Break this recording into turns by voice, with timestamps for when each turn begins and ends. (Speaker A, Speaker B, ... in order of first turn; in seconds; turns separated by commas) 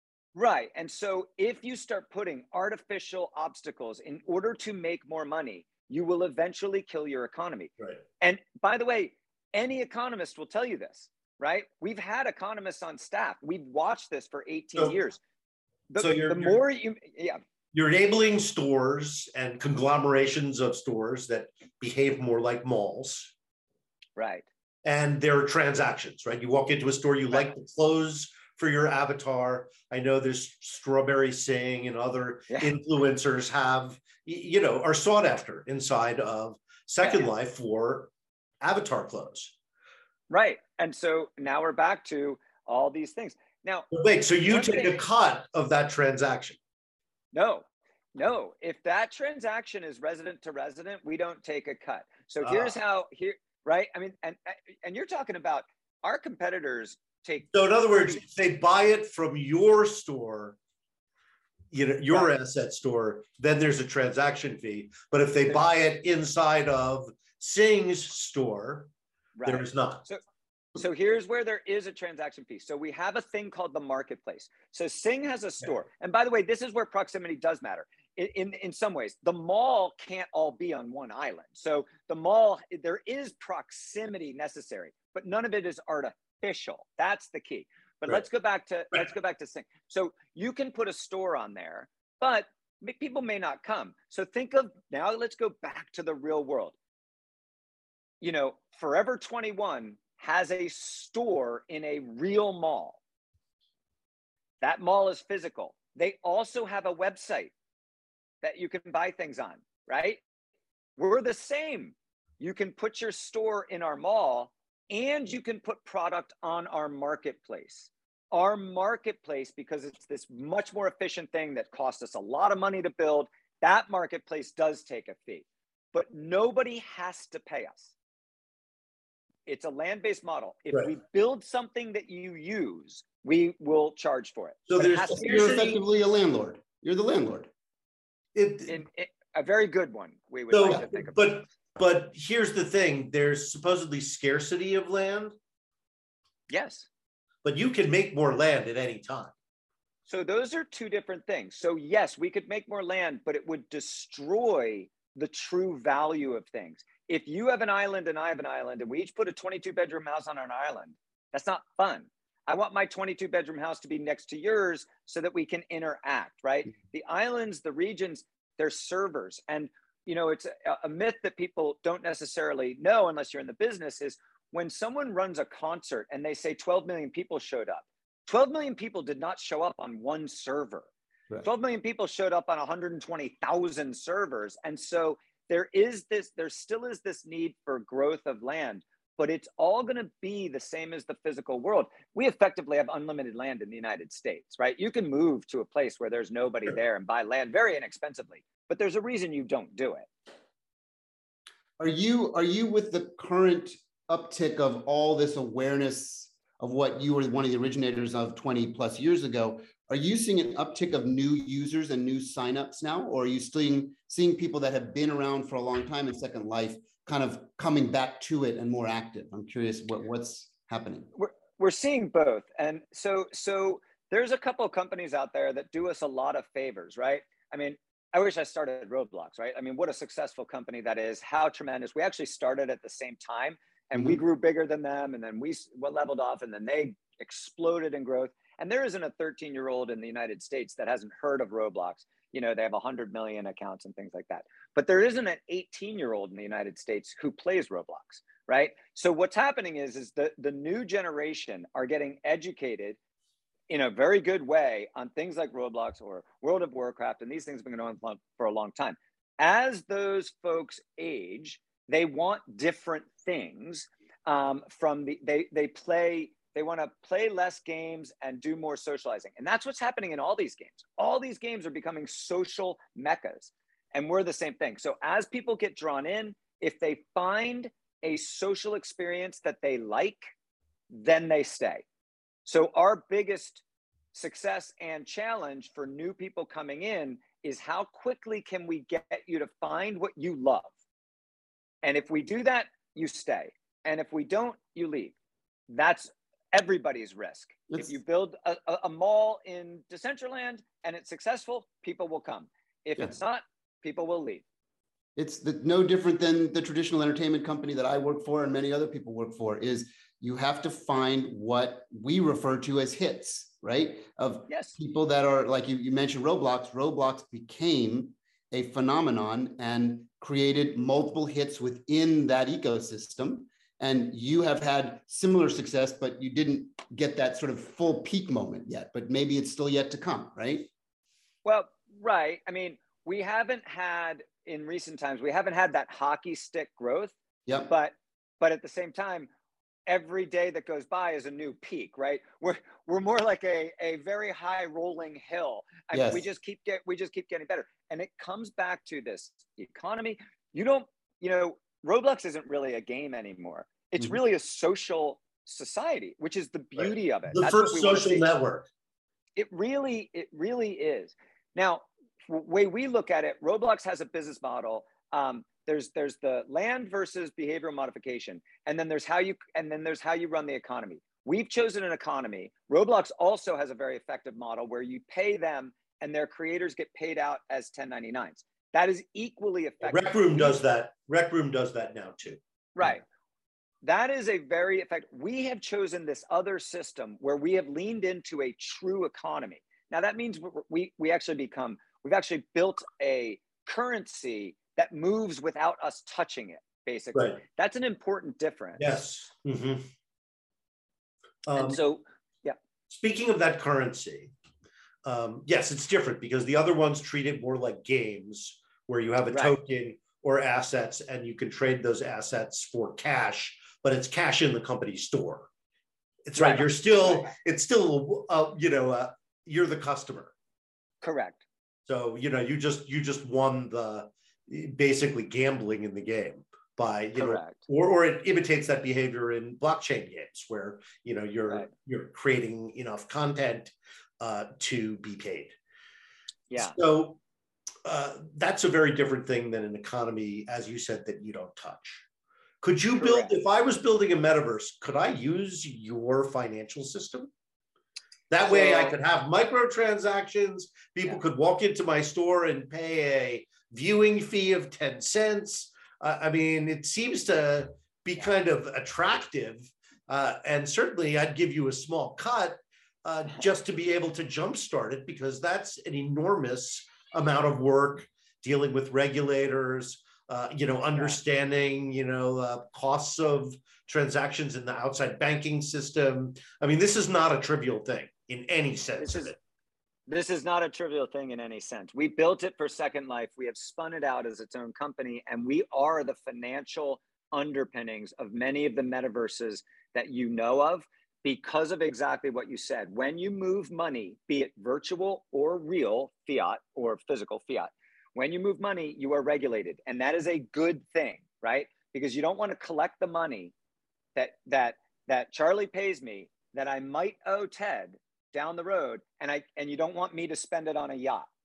Speaker A: 0.3-15.2, Speaker A: 15.9-17.4, Speaker B: 16.0-16.6, Speaker B: 17.7-23.3, Speaker A: 24.1-24.4, Speaker B: 24.8-38.1, Speaker A: 37.0-37.3, Speaker B: 38.6-39.5, Speaker A: 40.3-43.9, Speaker B: 43.9-46.6, Speaker A: 44.5-45.0, Speaker A: 47.3-58.2, Speaker B: 52.4-52.8, Speaker B: 57.5-60.6, Speaker B: 61.7-68.9, Speaker A: 69.4-70.2, Speaker B: 69.5-70.0, Speaker A: 70.8-96.7, Speaker A: 98.2-103.0, Speaker A: 104.6-107.5, Speaker A: 108.4-110.2, Speaker A: 111.0-127.9, Speaker A: 129.4-135.4, Speaker B: 134.7-135.8, Speaker C: 135.1-137.5, Speaker B: 138.3-138.8, Speaker A: 138.7-141.3, Speaker B: 140.5-145.4, Speaker A: 146.5-146.9, Speaker B: 147.4-149.3, Speaker A: 150.1-180.9, Speaker A: 181.4-200.1, Speaker C: 201.8-221.1, Speaker A: 221.1-253.0, Speaker A: 253.7-280.3, Speaker A: 280.9-281.9, Speaker A: 282.4-283.6, Speaker A: 284.1-290.7, Speaker A: 291.8-295.1, Speaker A: 295.7-304.4, Speaker C: 305.1-330.7, Speaker A: 314.5-314.8, Speaker A: 331.4-337.1, Speaker A: 337.7-339.3, Speaker A: 339.9-358.3, Speaker C: 345.9-346.2, Speaker B: 357.3-358.7, Speaker A: 359.4-380.6, Speaker B: 379.8-382.4, Speaker A: 382.7-383.0, Speaker A: 383.8-399.0, Speaker B: 397.1-397.4, Speaker B: 398.8-399.9, Speaker B: 401.4-401.8, Speaker A: 401.6-402.6, Speaker B: 402.9-404.3, Speaker B: 405.1-415.5, Speaker A: 409.3-409.6, Speaker B: 416.3-420.3, Speaker A: 416.4-417.3, Speaker A: 421.0-421.4, Speaker B: 421.9-435.6, Speaker A: 427.2-427.6, Speaker A: 436.5-436.8, Speaker B: 436.6-437.2, Speaker B: 437.9-442.0, Speaker B: 442.6-447.3, Speaker A: 443.0-443.4, Speaker B: 448.3-479.4, Speaker A: 448.5-448.9, Speaker A: 479.0-479.4, Speaker A: 480.1-503.5, Speaker A: 504.1-511.3